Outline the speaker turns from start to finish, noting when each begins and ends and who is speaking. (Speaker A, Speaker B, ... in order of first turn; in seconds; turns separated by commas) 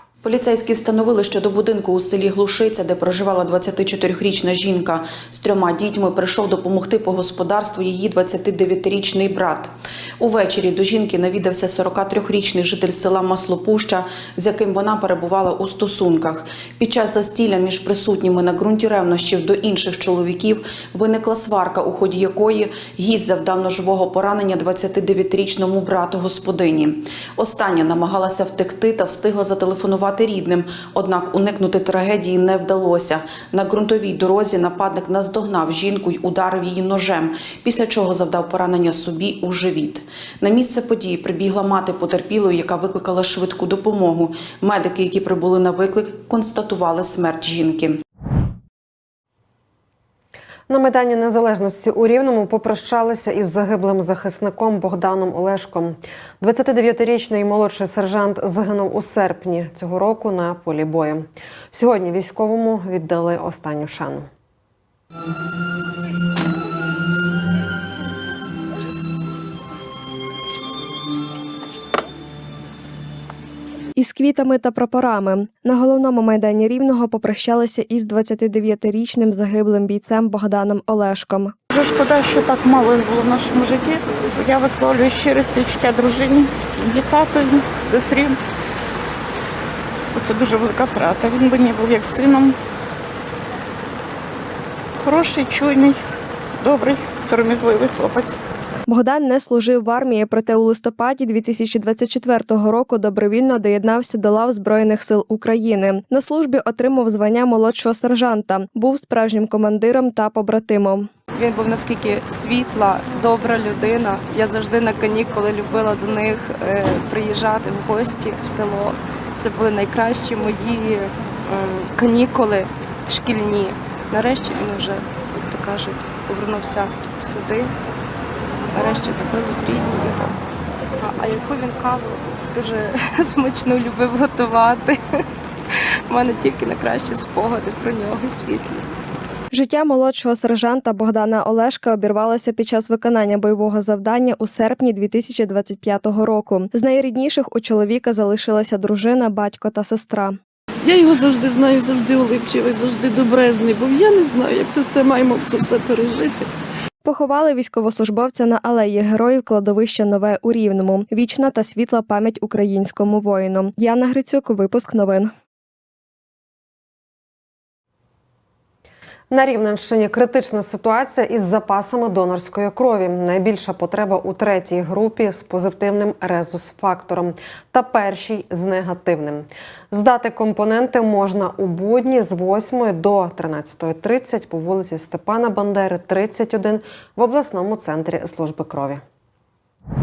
Speaker A: 0.2-48.0, Speaker B: 50.7-64.3, Speaker C: 74.0-81.5, Speaker D: 81.7-88.4, Speaker D: 90.2-92.6, Speaker D: 95.0-96.0, Speaker D: 96.6-98.4, Speaker C: 98.9-111.1, Speaker E: 111.3-127.7, Speaker E: 128.7-130.4, Speaker E: 131.0-135.0, Speaker E: 136.1-138.9, Speaker C: 139.5-150.4, Speaker F: 150.9-156.4, Speaker C: 157.1-165.3, Speaker B: 169.3-189.0